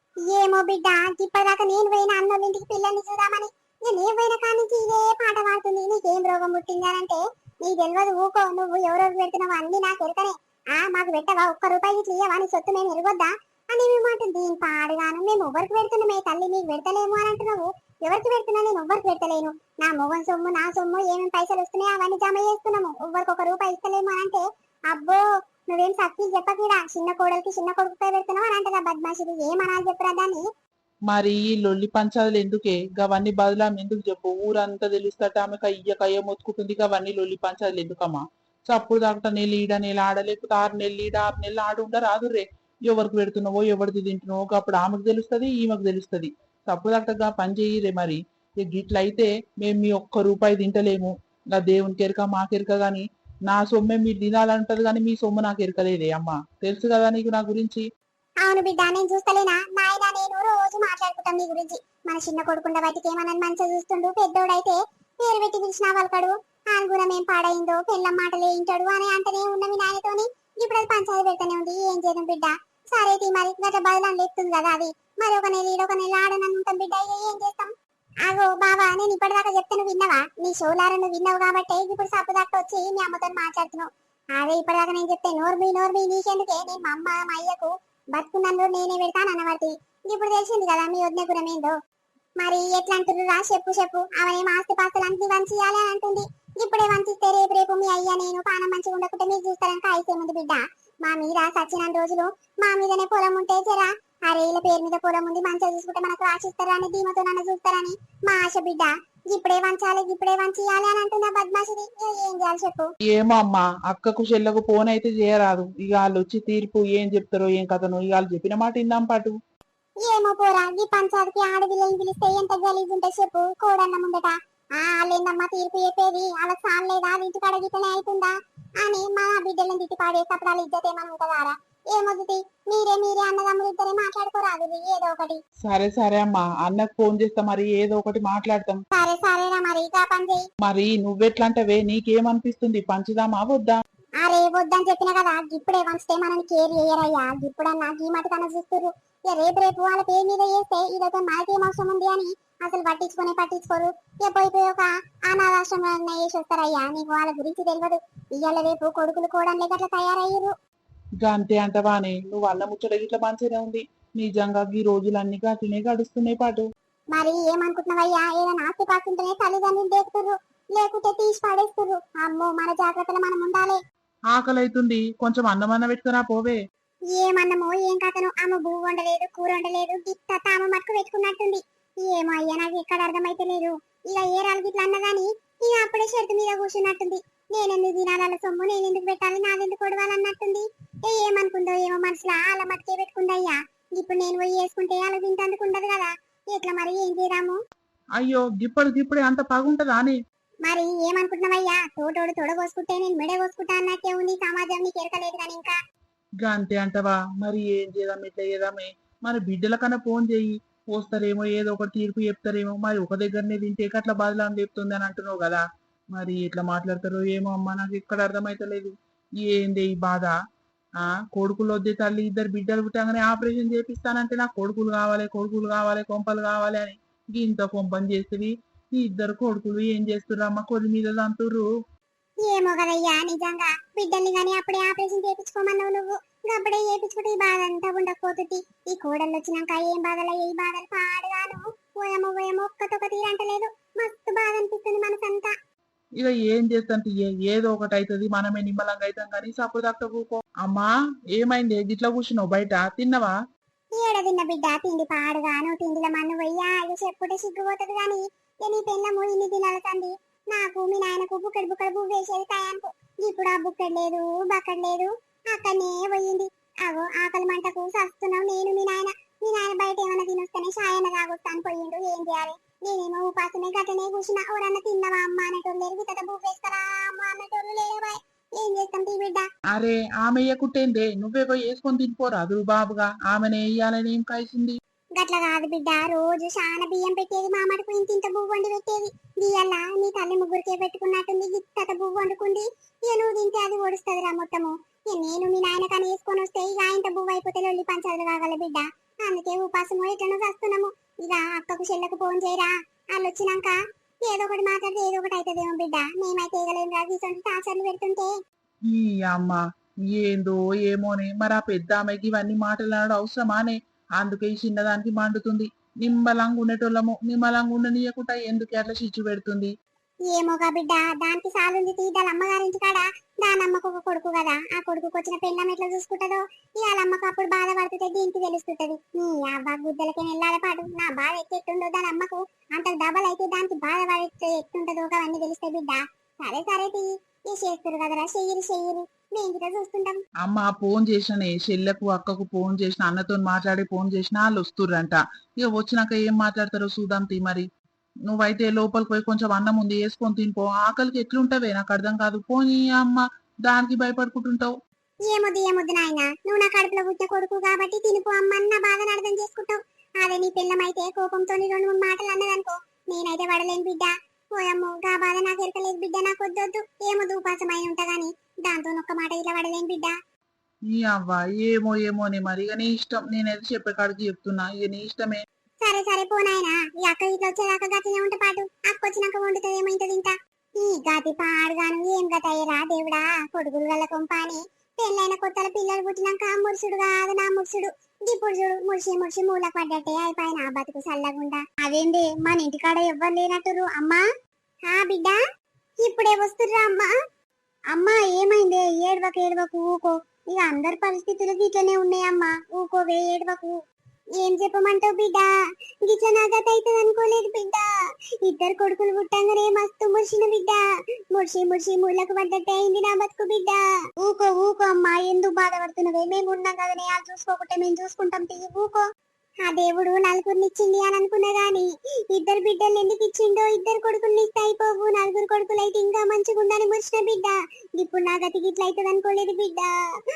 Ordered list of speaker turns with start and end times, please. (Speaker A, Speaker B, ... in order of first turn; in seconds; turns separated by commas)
Speaker A: 0.3-30.4, Speaker B: 31.1-57.9, Speaker A: 58.4-77.7, Speaker A: 78.3-91.8, Speaker A: 92.4-112.9, Speaker B: 113.1-119.4, Speaker A: 120.0-135.4, Speaker B: 135.7-138.8, Speaker A: 138.9-140.4, Speaker B: 140.6-143.8, Speaker A: 144.2-160.6, Speaker B: 161.2-166.7, Speaker A: 167.1-173.8, Speaker B: 174.3-176.6, Speaker A: 177.1-197.6, Speaker B: 198.2-200.2, Speaker A: 200.7-205.8, Speaker B: 206.4-220.3, Speaker B: 221.0-231.7, Speaker A: 232.4-245.5, Speaker B: 246.2-253.3, Speaker A: 253.9-279.4, Speaker B: 279.7-284.8, Speaker A: 285.2-308.3, Speaker B: 308.9-319.7, Speaker A: 320.3-340.2, Speaker B: 340.4-347.7, Speaker B: 348.3-354.7, Speaker A: 355.3-370.1, Speaker B: 370.9-375.4, Speaker A: 375.8-394.2, Speaker A: 394.9-395.4, Speaker A: 396.0-397.1, Speaker A: 397.9-403.8, Speaker A: 404.4-405.5, Speaker A: 406.1-407.9, Speaker A: 408.4-419.1, Speaker A: 419.6-429.9